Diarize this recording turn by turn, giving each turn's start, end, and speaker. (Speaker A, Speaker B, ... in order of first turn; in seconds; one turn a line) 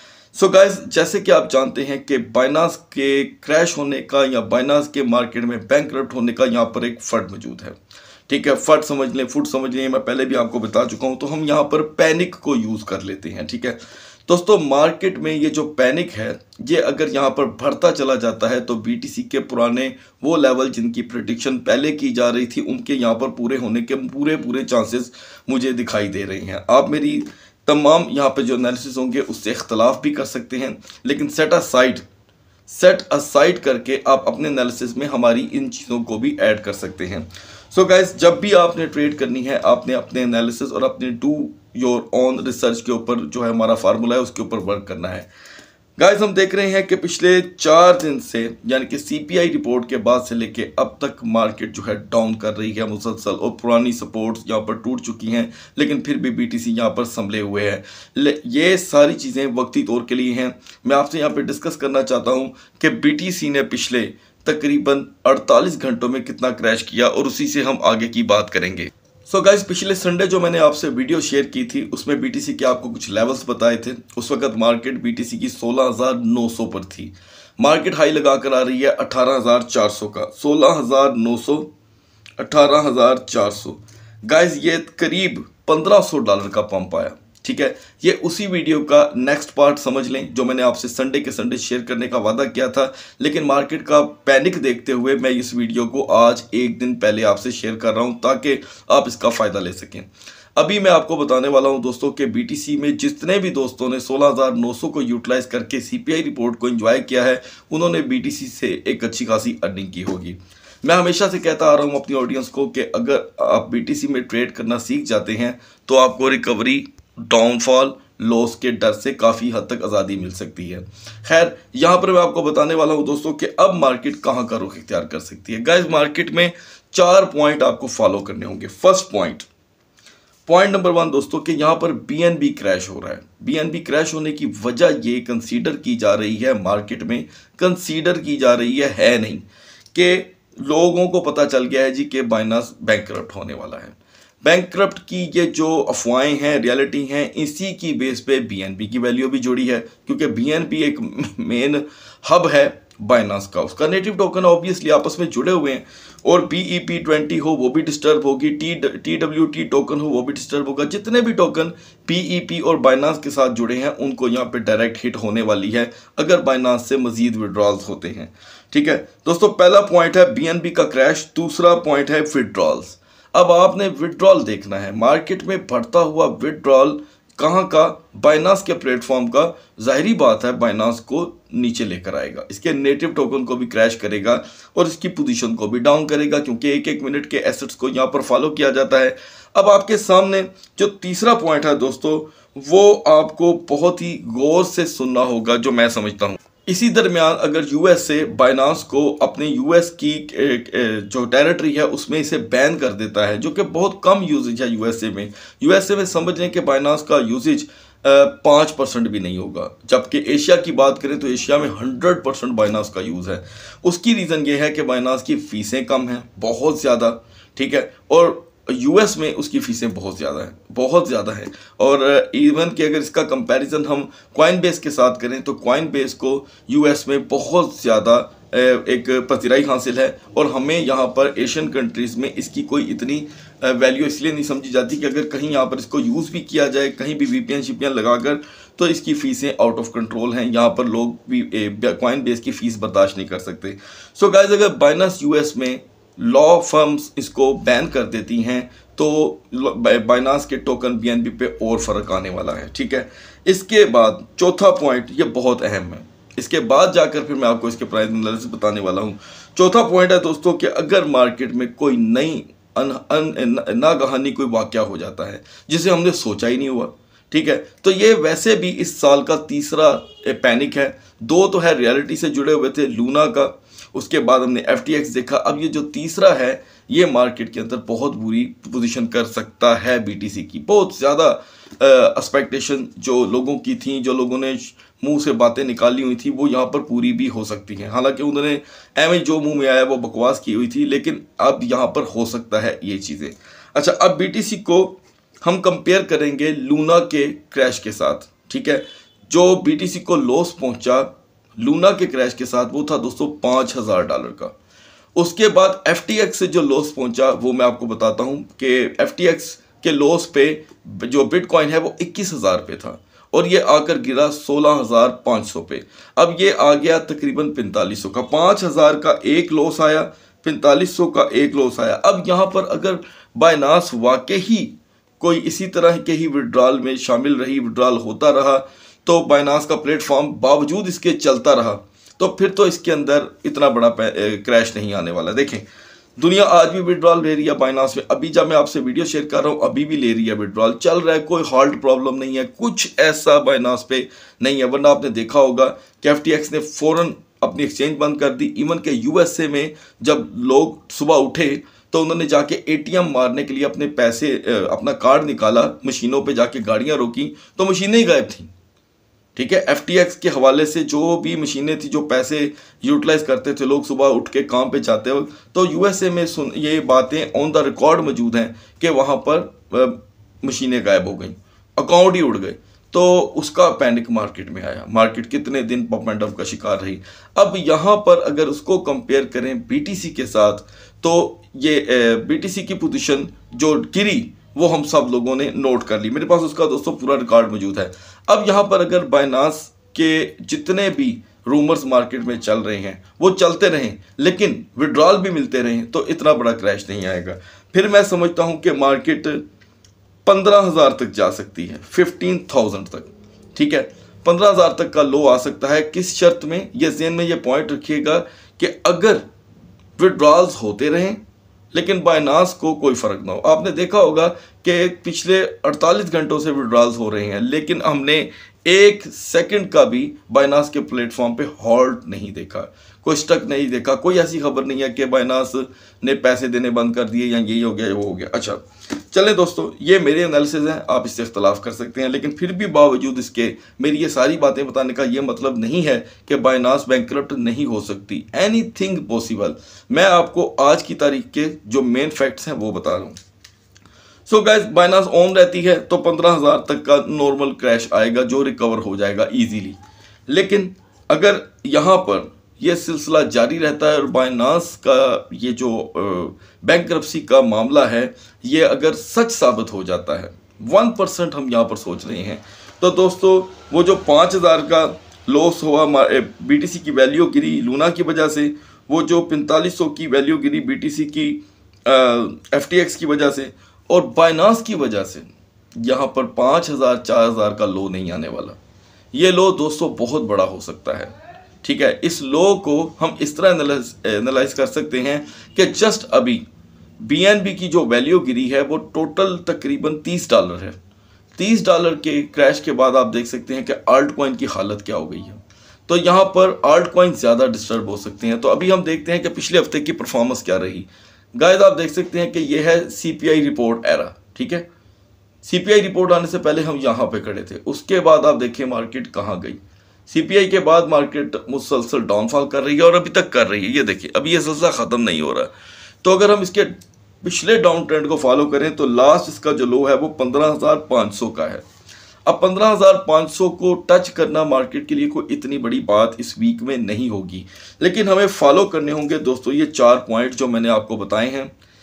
Speaker A: 0.3-7.8
Speaker A: 8.3-32.0
Speaker A: 32.7-45.3
Speaker A: 46.0-81.7
Speaker A: 82.4-129.5
Speaker A: 130.4-304.5
Speaker A: 305.1-335.6
Speaker A: 336.2-358.5
Speaker A: 359.4-399.4
Speaker A: 400.2-409.2
Speaker A: 410.0-411.2
Speaker A: 411.7-443.2
Speaker A: 444.3-478.6
Speaker A: 479.1-486.4
Speaker A: 487.0-490.8
Speaker A: 491.4-504.7
Speaker A: 505.4-515.5
Speaker A: 516.0-521.6
Speaker A: 522.2-531.5